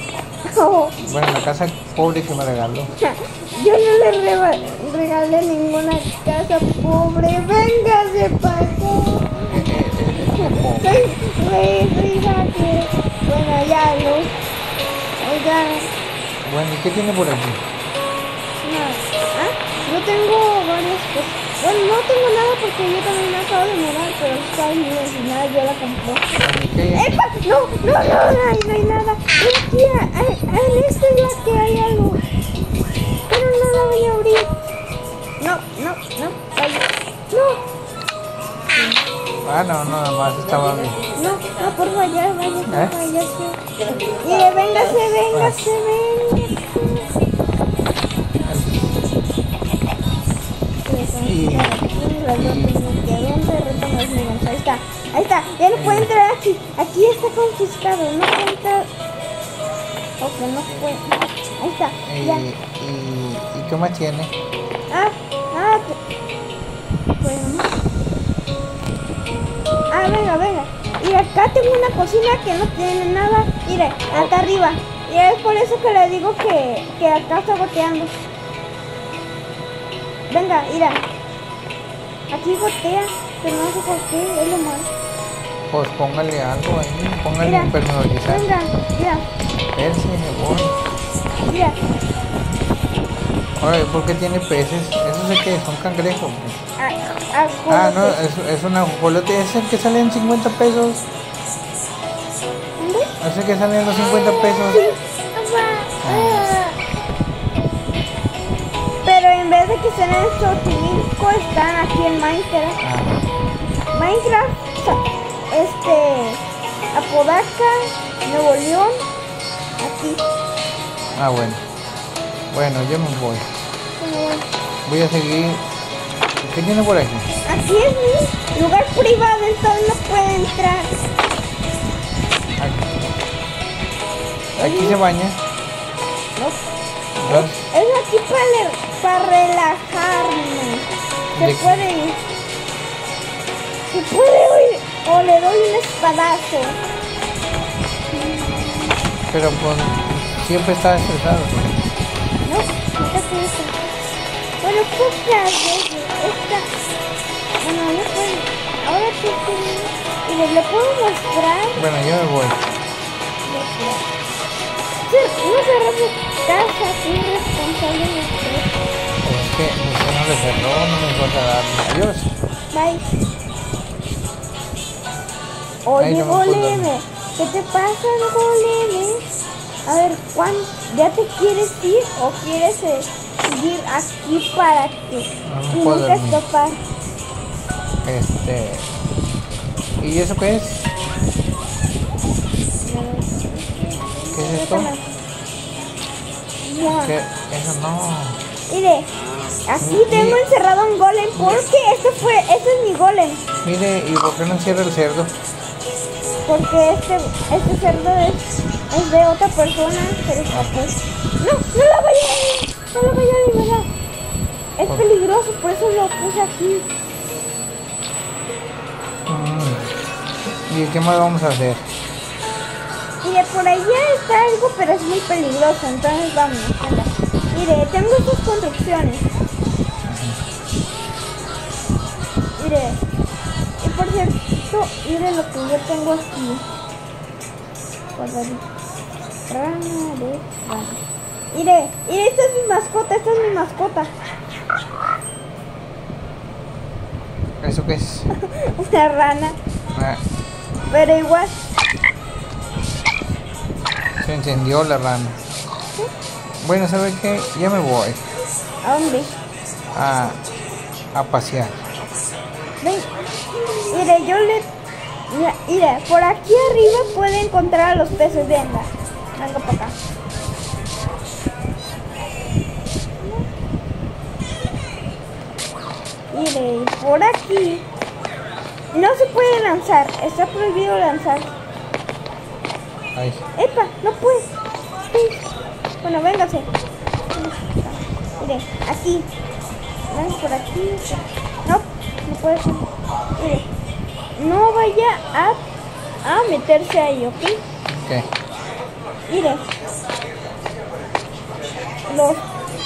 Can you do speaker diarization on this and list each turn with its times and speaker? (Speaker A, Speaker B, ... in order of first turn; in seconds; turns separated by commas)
Speaker A: 0.5-0.9, Speaker B: 1.0-2.9, Speaker A: 3.0-9.7, Speaker B: 9.5-11.1, Speaker A: 10.3-14.3, Speaker A: 15.2-15.9, Speaker B: 16.4-17.6, Speaker A: 18.6-26.2, Speaker B: 26.3-27.2, Speaker A: 26.9-32.2, Speaker A: 33.3-34.5, Speaker A: 35.4-37.6, Speaker B: 39.4-41.0, Speaker A: 41.2-47.1, Speaker B: 42.7-42.9, Speaker B: 45.3-45.6, Speaker B: 48.5-49.0, Speaker A: 50.8-58.9, Speaker B: 51.2-51.8, Speaker B: 52.4-52.8, Speaker B: 55.7-56.1, Speaker A: 60.2-62.4, Speaker B: 62.0-64.3, Speaker A: 64.9-66.0, Speaker A: 67.2-67.8, Speaker A: 69.9-78.1, Speaker A: 80.3-81.0, Speaker A: 82.3-84.9, Speaker B: 85.7-88.5, Speaker A: 87.4-87.7, Speaker A: 88.2-89.2, Speaker B: 89.8-90.8, Speaker A: 91.5-91.8, Speaker B: 93.6-96.6, Speaker A: 96.8-98.2, Speaker B: 97.7-101.0, Speaker A: 102.8-103.2, Speaker B: 103.2-104.9, Speaker A: 104.2-106.8, Speaker B: 106.0-106.5, Speaker A: 109.0-112.8, Speaker B: 112.8-113.2, Speaker A: 113.9-116.4, Speaker A: 116.9-119.0, Speaker A: 119.8-120.2, Speaker B: 121.2-121.6, Speaker B: 122.5-123.5, Speaker A: 124.0-124.5, Speaker B: 124.9-125.6, Speaker B: 126.4-127.3, Speaker A: 127.5-130.9, Speaker B: 132.6-133.0, Speaker A: 134.6-135.0, Speaker B: 134.6-135.4, Speaker B: 137.2-137.6, Speaker A: 137.3-142.2, Speaker B: 141.4-141.8, Speaker A: 143.9-146.8, Speaker A: 148.1-148.9, Speaker B: 149.3-151.8, Speaker A: 152.4-153.9, Speaker A: 154.6-156.7, Speaker A: 157.6-161.8, Speaker B: 161.8-162.6, Speaker A: 163.4-164.1, Speaker A: 165.1-168.7, Speaker B: 169.2-172.4, Speaker A: 172.7-173.1, Speaker A: 175.9-179.2, Speaker B: 176.0-176.9, Speaker A: 179.9-186.8, Speaker B: 185.4-186.4, Speaker B: 188.0-188.9, Speaker B: 190.0-190.9, Speaker A: 192.8-195.1, Speaker B: 194.3-194.9, Speaker A: 196.6-197.2, Speaker B: 196.9-198.4, Speaker A: 198.7-199.1, Speaker A: 199.7-203.4, Speaker B: 199.8-200.4, Speaker B: 201.3-201.6, Speaker B: 203.6-205.3, Speaker A: 206.4-213.9, Speaker A: 214.8-216.9, Speaker B: 219.3-219.9, Speaker B: 220.7-221.9, Speaker A: 223.2-229.2, Speaker B: 230.1-230.4, Speaker A: 232.6-233.0, Speaker A: 233.8-236.6, Speaker A: 238.2-238.6, Speaker A: 239.5-241.0, Speaker A: 241.5-244.1, Speaker B: 247.6-248.3, Speaker A: 248.3-249.6, Speaker B: 249.9-250.2, Speaker A: 250.9-251.6, Speaker B: 254.2-255.4, Speaker B: 256.6-258.2, Speaker A: 258.8-259.3, Speaker B: 259.9-260.4, Speaker B: 261.1-261.9, Speaker A: 262.8-263.1, Speaker A: 263.9-264.7, Speaker A: 265.3-269.9, Speaker A: 276.3-277.9, Speaker A: 278.9-281.5, Speaker B: 283.1-283.4, Speaker A: 283.6-284.6, Speaker A: 285.1-285.4, Speaker A: 286.0-286.7, Speaker A: 287.3-289.3, Speaker A: 290.1-292.9, Speaker A: 293.4-293.7, Speaker A: 294.4-295.6, Speaker A: 296.2-297.6, Speaker B: 297.9-298.3, Speaker A: 299.3-299.6, Speaker A: 302.1-302.4